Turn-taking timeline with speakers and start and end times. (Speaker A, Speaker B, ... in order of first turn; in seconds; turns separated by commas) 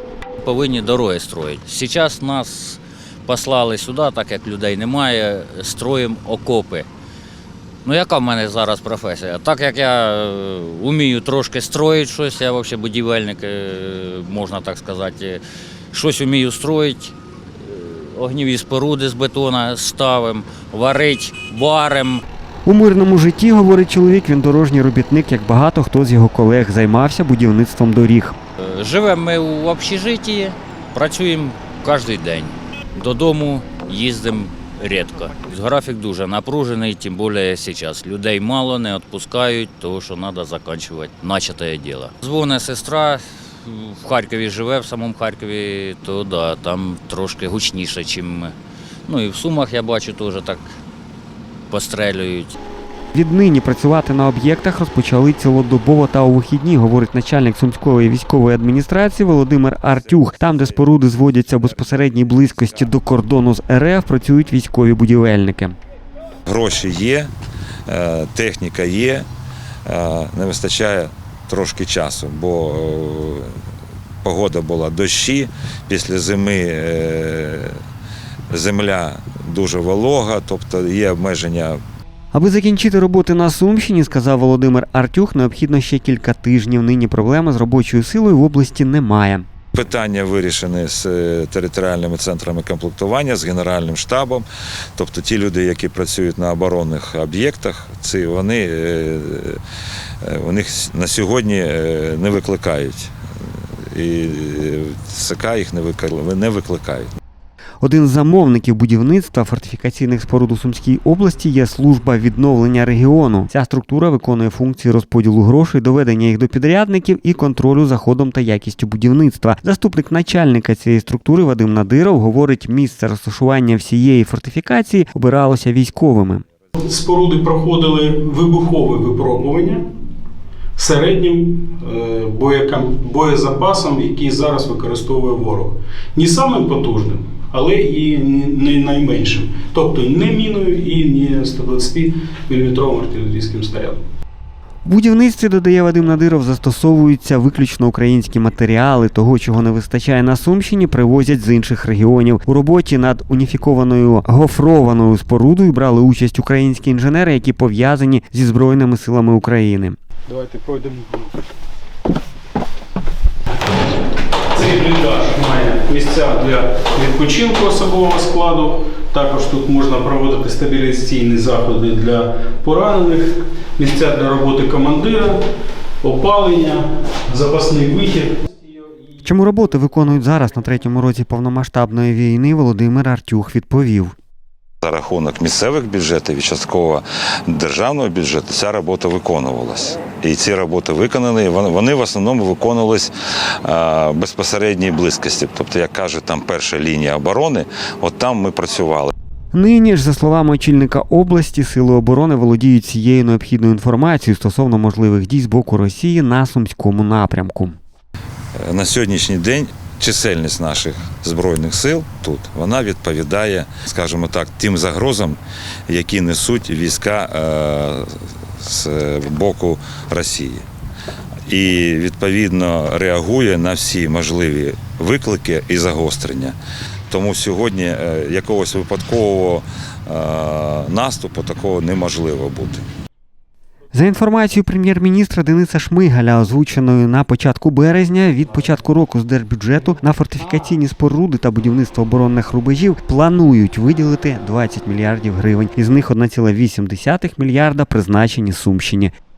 Speaker A: 0.4-6.9, Speaker A: 7.8-22.2, Speaker B: 22.7-28.4, Speaker A: 28.6-48.5, Speaker A: 49.1-50.7, Speaker A: 51.7-52.6, Speaker B: 53.1-65.8, Speaker C: 60.2-62.9, Speaker C: 66.5-67.3, Speaker C: 67.9-69.3, Speaker C: 69.9-73.5, Speaker C: 74.2-77.8, Speaker C: 78.5-81.8, Speaker B: 82.3-89.5, Speaker C: 89.7-99.6, Speaker C: 100.2-103.1, Speaker C: 103.9-107.1, Speaker B: 107.8-126.4, Speaker D: 126.8-129.8, Speaker D: 130.8-144.0, Speaker B: 144.8-160.0, Speaker D: 160.3-161.4, Speaker D: 164.5-175.4, Speaker D: 176.0-178.5, Speaker B: 179.2-184.1, Speaker C: 184.8-193.1, Speaker C: 193.6-199.1, Speaker B: 199.5-207.8, Speaker C: 208.6-220.7, Speaker C: 221.5-226.6, Speaker C: 227.1-232.8, Speaker B: 233.9-249.1